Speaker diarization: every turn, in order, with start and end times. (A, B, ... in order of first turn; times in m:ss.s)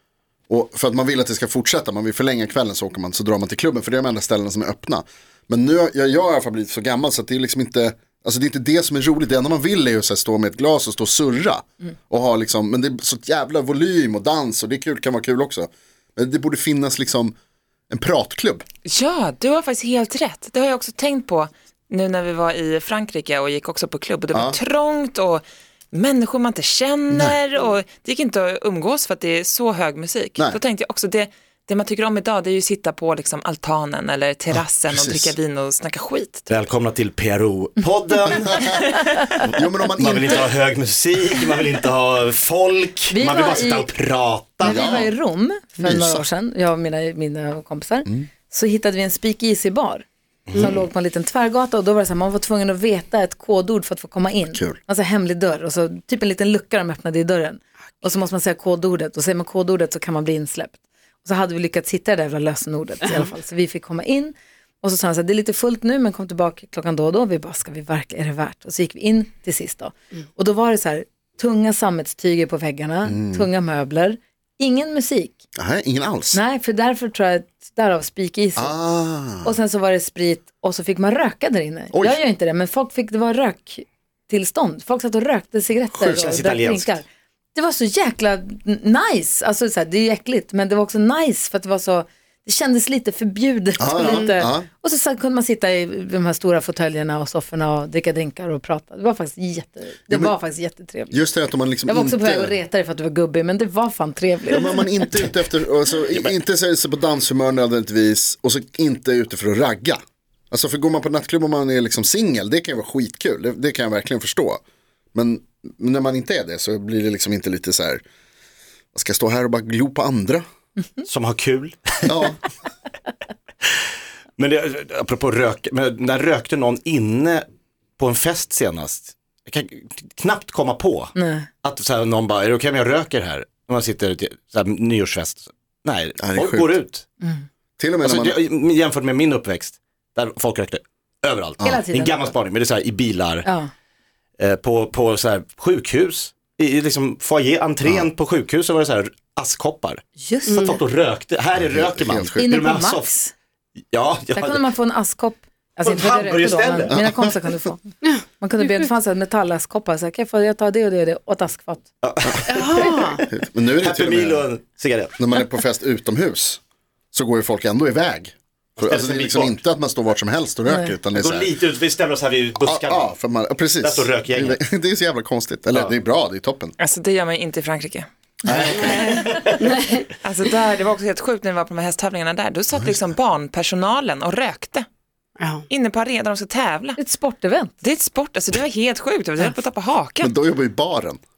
0:00.5-0:17.4 A
0:17.9-0:18.6 A
0:18.9-0:36.5 B
0:24.3-0:24.6 A
0:27.1-0:27.4 A
0:34.5-0:35.4 A
0:36.5-0:38.6 C
0:38.5-0:39.0 A
0:39.5-0:40.5 A
0:40.0-0:44.9 C
0:43.1-0:43.9 D
0:44.6-1:15.4 D
0:44.6-0:45.1 A
0:45.8-0:46.2 A
0:54.5-0:54.8 A
1:13.1-1:13.5 A
1:15.6-1:16.4 A
1:16.3-1:18.8 D
1:18.6-1:19.6 A
1:19.4-1:41.1 D
1:21.9-1:22.2 A
1:25.9-1:26.3 A
1:26.2-1:27.0 C
1:33.8-1:34.7 A
1:34.1-1:34.4 E
1:40.1-1:40.4 A
1:41.1-1:42.6 A
1:41.9-1:45.3 D
1:44.5-1:54.6 A
1:55.1-1:58.0 A
1:58.9-2:00.4 A
2:01.1-2:02.1 C
2:02.1-2:02.4 A
2:04.4-2:07.4 C
2:08.0-2:17.0 C
2:11.2-2:11.5 D
2:16.2-2:16.8 A
2:17.8-2:18.4 A
2:18.0-2:23.5 C
2:21.6-2:22.3 D
2:24.4-2:30.0 C
2:27.8-2:28.1 A
2:30.2-2:30.8 D
2:30.5-2:30.8 E
2:30.9-2:33.1 C
2:31.6-2:32.5 A
2:32.4-2:33.3 D
2:33.9-2:34.6 C
2:34.4-2:41.9 D
2:35.8-2:36.9 C
2:36.9-2:37.3 A
2:42.0-2:43.2 C
2:42.5-2:43.2 E
2:43.3-2:44.5 A
2:43.8-2:45.2 C
2:45.2-2:46.6 A
2:47.1-2:51.5 A
2:48.8-2:49.6 C
2:50.7-2:50.9 D
2:51.2-2:53.1 C
2:52.6-2:56.8 A
2:53.8-2:54.6 C
2:56.8-2:58.1 B
2:58.5-2:59.2 A
2:58.5-2:59.7 C
2:58.6-2:59.1 B
2:58.8-2:59.1 E
2:59.6-3:00.1 E
3:00.2-3:04.9 B
3:02.7-3:03.1 A
3:05.4-3:05.6 E
3:05.7-3:07.0 B
3:07.0-3:07.8 D
3:07.8-3:10.3 B
3:10.2-3:11.2 A